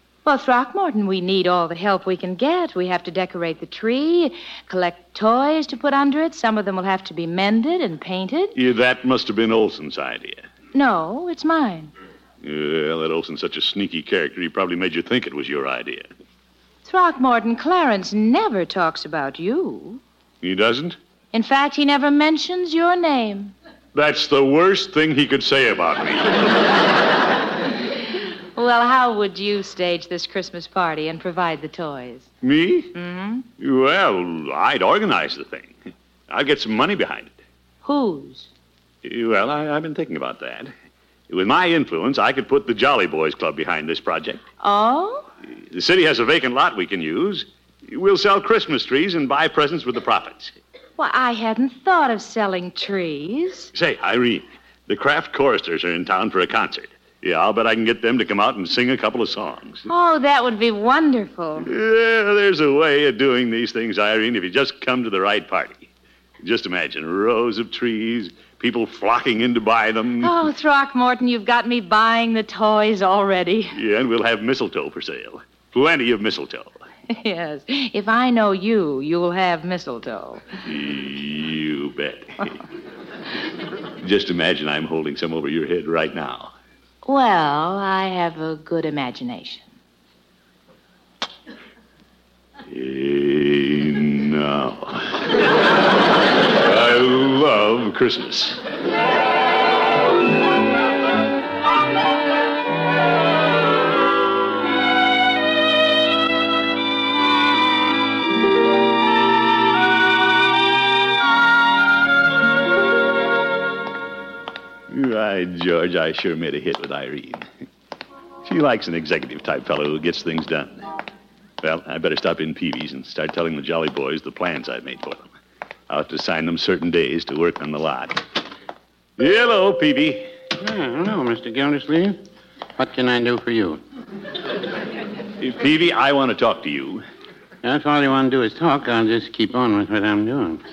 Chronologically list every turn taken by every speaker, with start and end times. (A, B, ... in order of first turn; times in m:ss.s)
0:00.2-0:08.6 A
0:08.6-0:10.5 B
0:10.7-0:11.9 A
0:12.4-0:16.1 B
0:16.8-0:20.0 A
0:20.4-0:21.0 B
0:21.3-0:23.5 A
0:23.9-0:26.5 B
0:28.6-0:32.3 A
0:32.4-0:32.9 B
0:32.9-0:33.4 A
0:33.6-0:35.7 B
0:36.3-0:37.3 B
0:37.8-0:38.5 A
0:39.0-0:40.7 B
0:41.3-0:44.4 B
0:44.6-0:45.3 A
0:45.7-0:50.5 B
0:51.0-0:53.7 A
0:53.7-0:59.8 B
0:59.9-1:01.7 A
1:01.6-1:05.9 B
1:06.4-1:10.4 B
1:10.2-1:13.8 A
1:13.7-1:16.7 B
1:17.1-1:20.4 A
1:20.6-1:22.6 B
1:24.0-1:26.5 B
1:27.0-1:29.7 A
1:32.7-1:35.4 B
1:36.6-1:38.6 B
1:54.9-1:57.5 B
1:58.4-2:00.9 B
2:01.6-2:05.3 B
2:05.9-2:08.2 B
2:09.2-2:10.3 B
2:10.6-2:12.2 C
2:12.8-2:13.8 C
2:15.4-2:17.0 B
2:17.6-2:20.6 C